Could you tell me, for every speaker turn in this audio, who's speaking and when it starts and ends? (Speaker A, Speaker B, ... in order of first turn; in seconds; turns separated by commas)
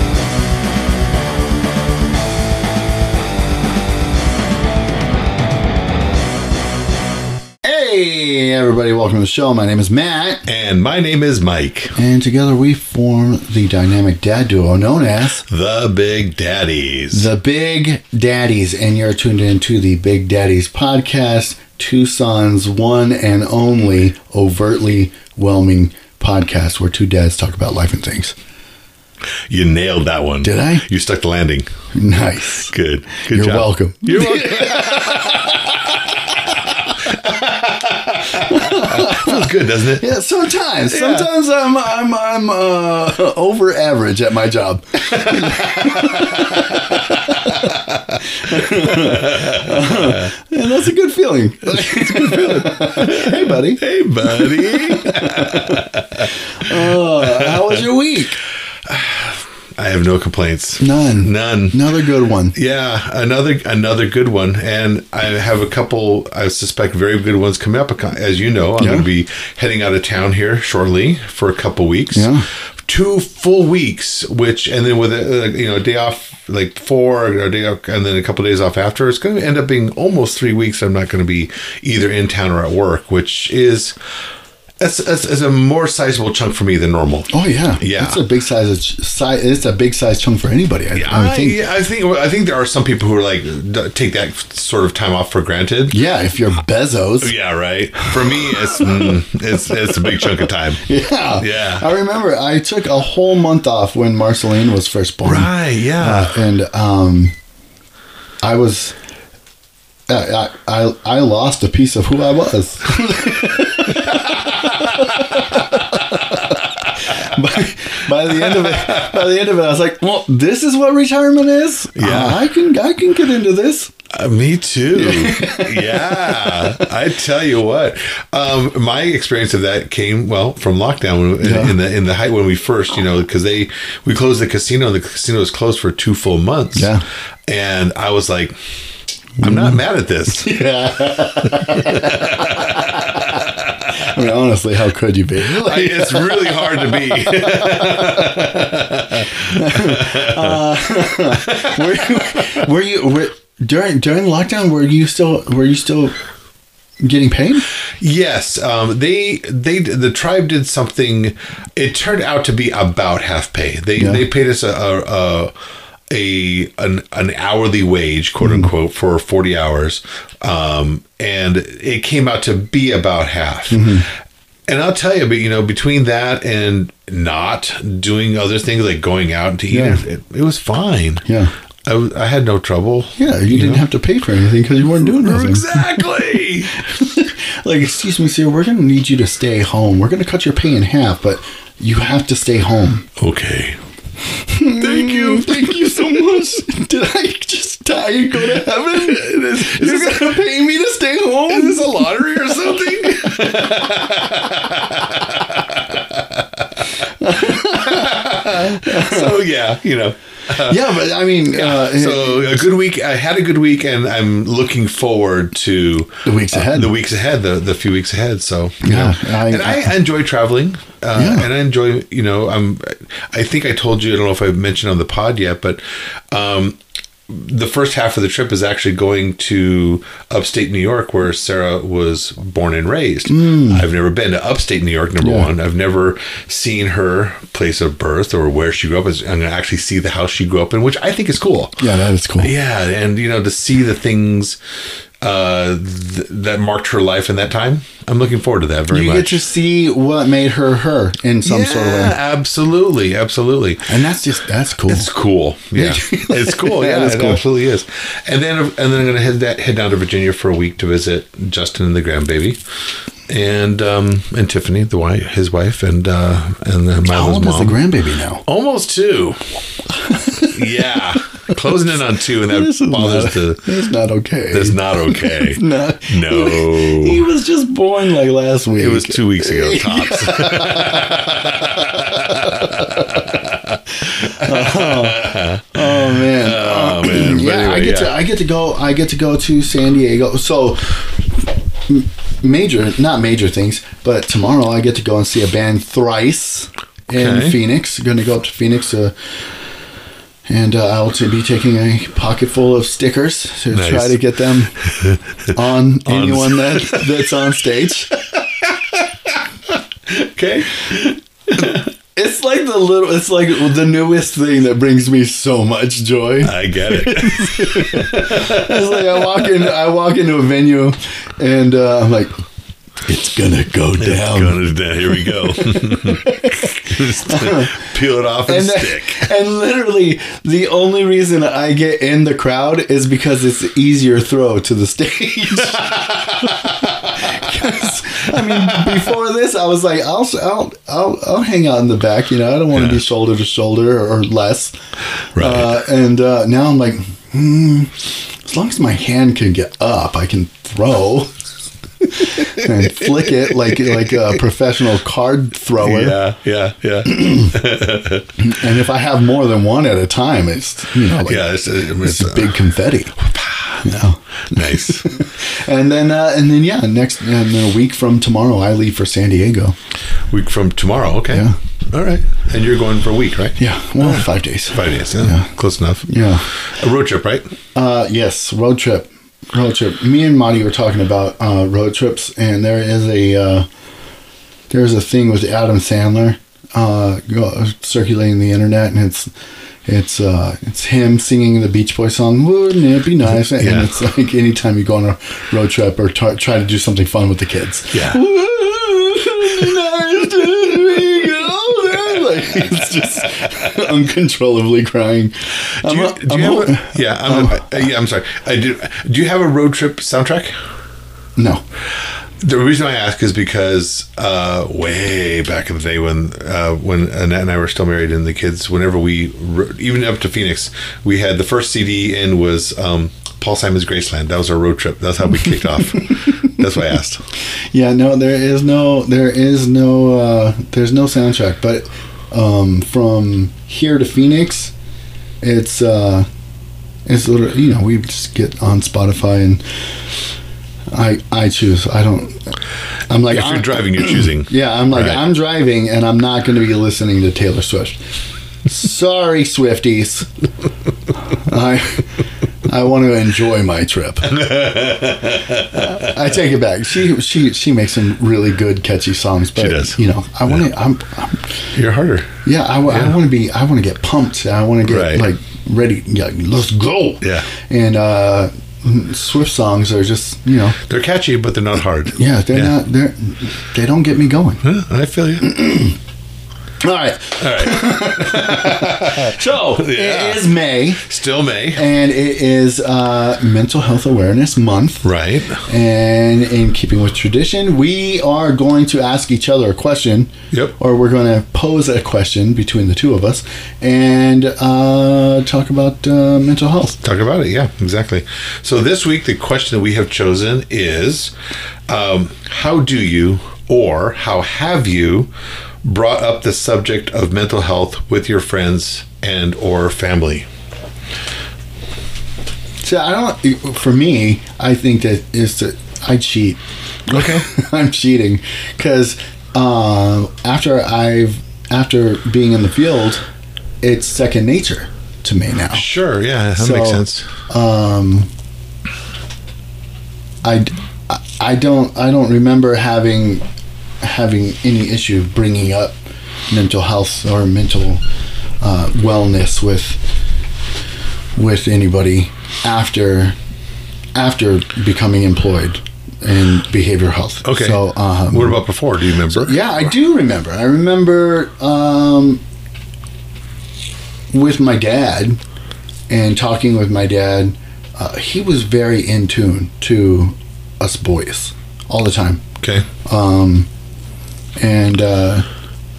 Speaker A: 7.6-10.4, Speaker B: 10.5-11.9, Speaker A: 12.0-15.4, Speaker B: 15.5-17.3, Speaker A: 17.1-28.4, Speaker B: 29.5-31.7, Speaker A: 30.4-30.9, Speaker A: 31.9-32.7, Speaker B: 32.7-40.0, Speaker A: 33.3-36.8, Speaker A: 38.2-58.4, Speaker B: 40.9-41.3, Speaker B: 45.2-50.2, Speaker B: 51.7-57.8, Speaker B: 58.9-61.8, Speaker A: 60.8-62.5, Speaker B: 62.5-72.3, Speaker A: 68.8-69.1, Speaker A: 72.1-72.5, Speaker B: 72.8-84.0, Speaker B: 84.8-88.2, Speaker A: 87.3-91.6, Speaker B: 91.0-96.0, Speaker A: 95.9-97.3, Speaker B: 97.2-100.8, Speaker A: 98.0-99.1, Speaker A: 100.9-107.3, Speaker B: 101.4-101.9, Speaker B: 105.2-106.4, Speaker A: 108.4-109.0, Speaker A: 110.1-123.9, Speaker B: 114.0-115.6, Speaker B: 118.3-119.2, Speaker B: 122.0-122.5, Speaker B: 124.1-136.9, Speaker A: 125.0-126.9, Speaker A: 131.4-131.8, Speaker A: 136.8-137.0, Speaker B: 137.5-138.6, Speaker A: 139.4-148.5, Speaker B: 139.4-140.5, Speaker B: 141.4-143.8, Speaker B: 145.4-150.6, Speaker A: 149.4-156.1, Speaker B: 151.5-151.8, Speaker A: 157.0-157.7, Speaker B: 158.0-165.5, Speaker A: 164.0-164.2, Speaker B: 166.1-174.0, Speaker A: 168.4-168.7, Speaker A: 173.7-174.1, Speaker B: 174.7-181.2, Speaker A: 179.7-180.0, Speaker A: 181.3-181.5, Speaker B: 181.8-183.8, Speaker A: 183.2-193.1, Speaker B: 184.9-186.8, Speaker B: 193.2-193.8, Speaker A: 194.5-202.2, Speaker B: 194.8-196.6, Speaker B: 198.9-200.4, Speaker B: 201.5-206.8, Speaker A: 207.0-209.4, Speaker B: 207.5-210.9, Speaker A: 210.6-212.7, Speaker B: 211.5-241.8, Speaker A: 216.2-216.9, Speaker A: 218.8-219.9, Speaker A: 221.2-221.5, Speaker A: 233.3-233.8, Speaker A: 235.2-235.5, Speaker A: 241.8-242.5, Speaker B: 242.4-244.6, Speaker B: 245.2-249.4, Speaker A: 248.9-252.2, Speaker B: 251.4-253.9, Speaker A: 253.9-255.1, Speaker B: 254.9-262.6, Speaker A: 255.7-257.4, Speaker B: 263.3-267.8, Speaker A: 267.1-268.4, Speaker B: 268.4-269.4, Speaker A: 270.0-270.9, Speaker B: 270.5-273.6, Speaker A: 272.5-283.4, Speaker B: 274.5-277.2, Speaker B: 278.8-288.1, Speaker A: 284.0-291.2, Speaker A: 291.9-299.1, Speaker B: 297.1-297.6, Speaker A: 300.5-304.8, Speaker B: 303.7-304.2, Speaker B: 304.9-305.2, Speaker A: 305.5-308.1, Speaker B: 306.1-307.2, Speaker B: 308.3-311.8, Speaker A: 311.6-322.3, Speaker B: 316.4-319.6, Speaker A: 323.1-327.8, Speaker B: 324.0-329.3, Speaker A: 328.4-344.8, Speaker B: 335.7-337.3, Speaker B: 338.3-339.1, Speaker B: 342.7-343.0, Speaker B: 345.4-345.7, Speaker A: 345.4-351.4, Speaker A: 352.0-356.2, Speaker B: 355.8-358.3, Speaker A: 357.1-357.6, Speaker A: 358.4-363.2, Speaker B: 361.2-363.9, Speaker A: 363.8-369.8, Speaker B: 364.5-365.1, Speaker B: 370.3-377.5, Speaker A: 371.3-371.6, Speaker A: 373.6-375.5, Speaker A: 376.1-376.5, Speaker A: 377.8-383.7, Speaker A: 384.7-389.3, Speaker A: 389.9-407.7, Speaker B: 393.3-393.9, Speaker B: 397.9-398.2, Speaker B: 405.8-410.5, Speaker A: 411.4-411.6, Speaker B: 412.4-427.2, Speaker A: 425.9-426.5, Speaker A: 427.7-434.7, Speaker A: 435.4-436.3, Speaker A: 437.1-439.6, Speaker A: 440.9-442.6, Speaker A: 443.1-448.0, Speaker B: 443.3-445.2, Speaker A: 448.7-450.3, Speaker A: 451.3-454.5, Speaker B: 454.3-456.1, Speaker A: 455.8-461.6, Speaker B: 459.6-460.0, Speaker B: 461.7-462.3, Speaker A: 462.4-470.8, Speaker B: 462.9-463.1, Speaker B: 464.9-465.2, Speaker B: 467.2-467.5, Speaker B: 470.9-472.7, Speaker A: 472.2-474.6, Speaker B: 474.6-475.6, Speaker A: 475.4-476.0, Speaker A: 476.8-481.1, Speaker B: 477.4-480.5, Speaker B: 481.1-481.8, Speaker A: 481.7-485.1, Speaker B: 485.0-485.6, Speaker A: 485.6-497.0, Speaker B: 497.0-501.3, Speaker B: 501.9-505.3, Speaker B: 505.8-510.5, Speaker A: 512.8-523.2, Speaker B: 517.1-517.5, Speaker A: 523.8-525.9, Speaker B: 525.7-527.3, Speaker A: 526.6-528.3, Speaker A: 530.4-533.4, Speaker A: 534.0-536.0, Speaker A: 536.5-538.0, Speaker A: 538.6-540.0, Speaker A: 541.4-543.4, Speaker A: 544.1-548.6, Speaker B: 547.4-549.9, Speaker A: 549.3-552.4, Speaker A: 554.3-555.4, Speaker A: 556.1-562.4, Speaker B: 562.6-562.9, Speaker A: 563.0-563.7, Speaker A: 564.6-565.5